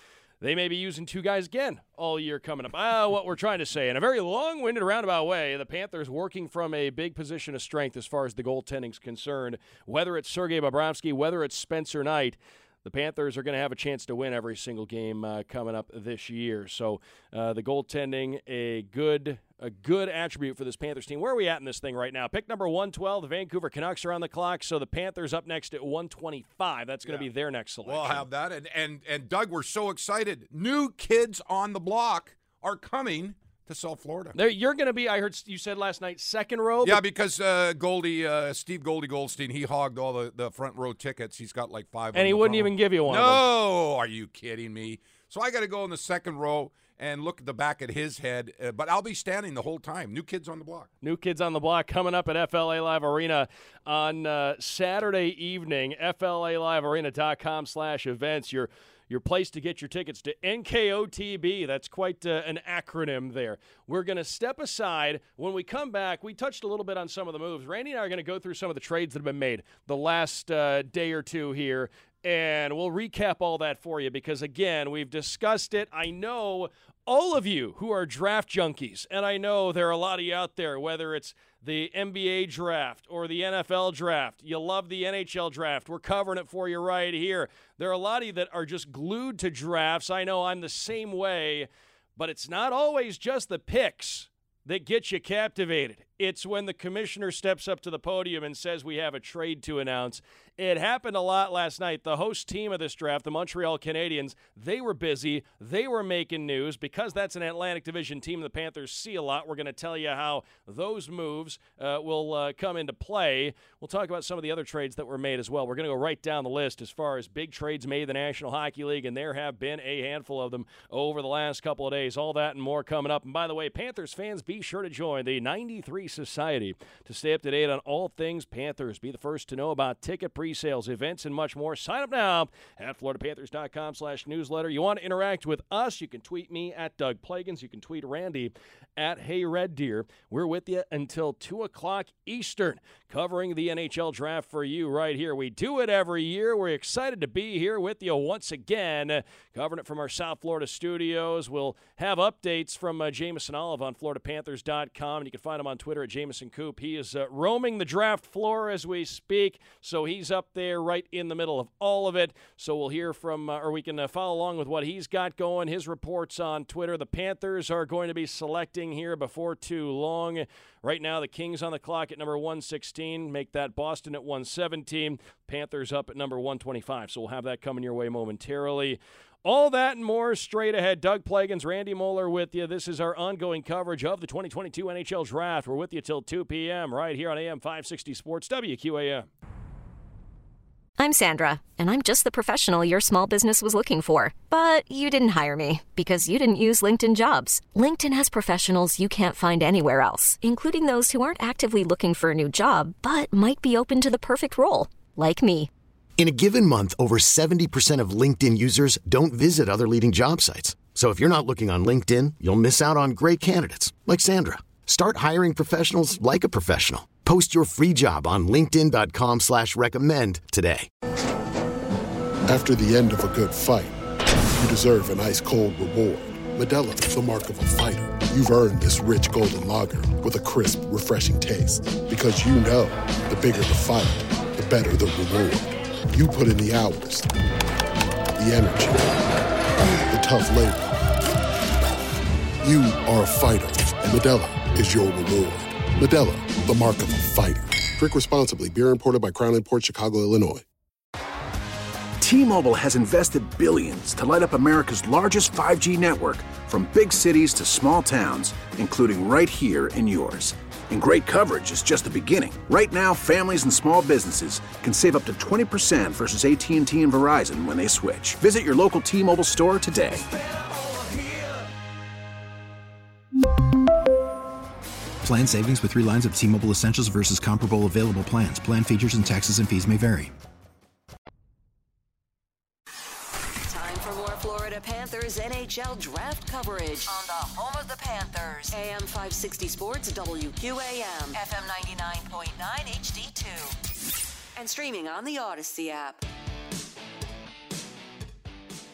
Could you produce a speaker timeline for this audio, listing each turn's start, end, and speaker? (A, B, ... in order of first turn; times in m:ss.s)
0:00.4-0:28.3 A
0:27.9-0:34.4 B
0:34.4-0:37.0 A
0:36.8-0:50.9 B
0:42.1-0:43.5 A
0:51.0-3:09.3 A
3:11.0-3:25.7 C
3:26.2-3:40.9 D
3:42.5-3:44.0 E
3:44.6-3:57.3 E
3:58.4-3:59.1 E
4:00.1-4:00.9 E
4:02.6-4:10.6 E
4:12.2-4:30.3 F
4:35.2-4:40.3 G
4:43.7-4:53.8 H
4:54.6-4:56.2 H